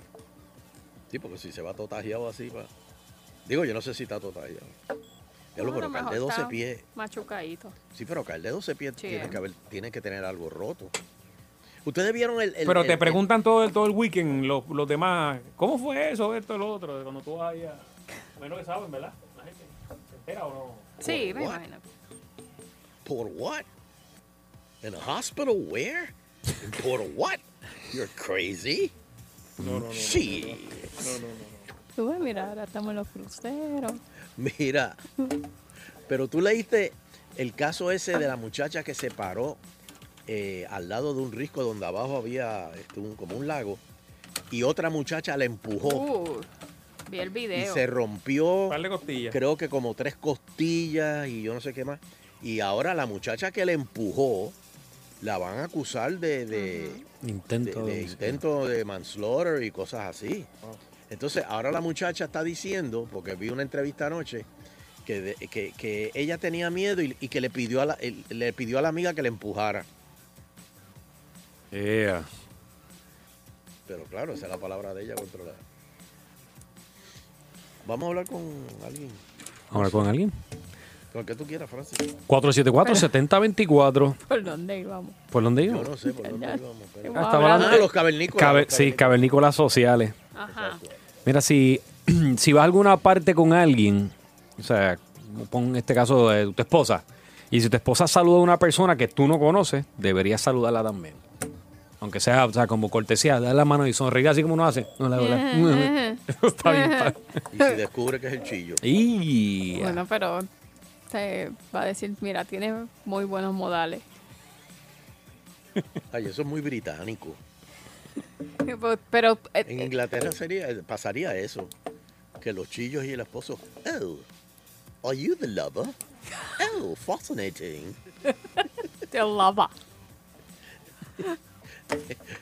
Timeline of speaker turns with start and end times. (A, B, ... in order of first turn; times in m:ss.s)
0:01.1-0:02.7 A
0:03.4-0:04.7 A
0:05.6-0:06.8 A
0:05.6-0:07.7 B
0:07.9-0:10.9 A
0:09.0-0:09.4 B
0:11.8-0:13.2 A
0:12.6-0:17.8 C
0:18.4-0:20.9 C
0:21.0-0:21.8 B
0:21.0-0:21.6 A
0:23.0-0:23.6 A
0:24.8-0:28.9 A
0:29.6-0:29.9 D
0:29.6-0:31.6 C
0:29.9-0:30.9 A
0:32.0-0:34.0 B
0:34.4-0:35.0 A
0:36.1-0:39.6 A
0:40.3-0:43.8 A
0:44.5-0:46.1 A
0:45.8-0:46.5 B
0:47.1-0:47.8 B
0:47.5-0:48.8 A
0:48.7-0:49.4 C
0:49.3-0:54.5 A
0:55.2-0:57.0 A
0:56.5-0:57.0 B
0:57.2-0:58.4 D
0:57.6-1:00.5 A
1:01.1-1:04.5 A
1:05.0-1:09.8 A
1:11.7-1:12.3 D
1:13.9-1:15.6 A
1:17.8-1:19.2 A
1:19.7-1:20.3 D
1:19.7-1:20.0 A
1:21.1-1:22.1 A
1:22.3-1:24.2 D
1:22.8-1:23.1 B
1:24.3-1:25.2 B
1:25.3-1:25.9 D
1:25.6-1:29.2 A
1:26.1-1:27.9 B
1:27.1-1:30.1 D
1:30.3-1:30.8 B
1:30.4-1:31.0 A
1:31.2-1:41.2 D
1:42.0-1:47.2 D
1:45.2-1:47.7 B
1:47.5-1:48.8 A
1:48.8-1:50.0 D
1:49.7-1:50.5 B
1:51.1-1:54.0 B
1:56.1-1:57.4 A
1:58.6-1:59.9 B
1:59.6-2:01.7 A
2:02.4-2:04.2 A
2:05.0-2:05.9 A
2:06.6-2:08.0 A
2:08.6-2:09.7 B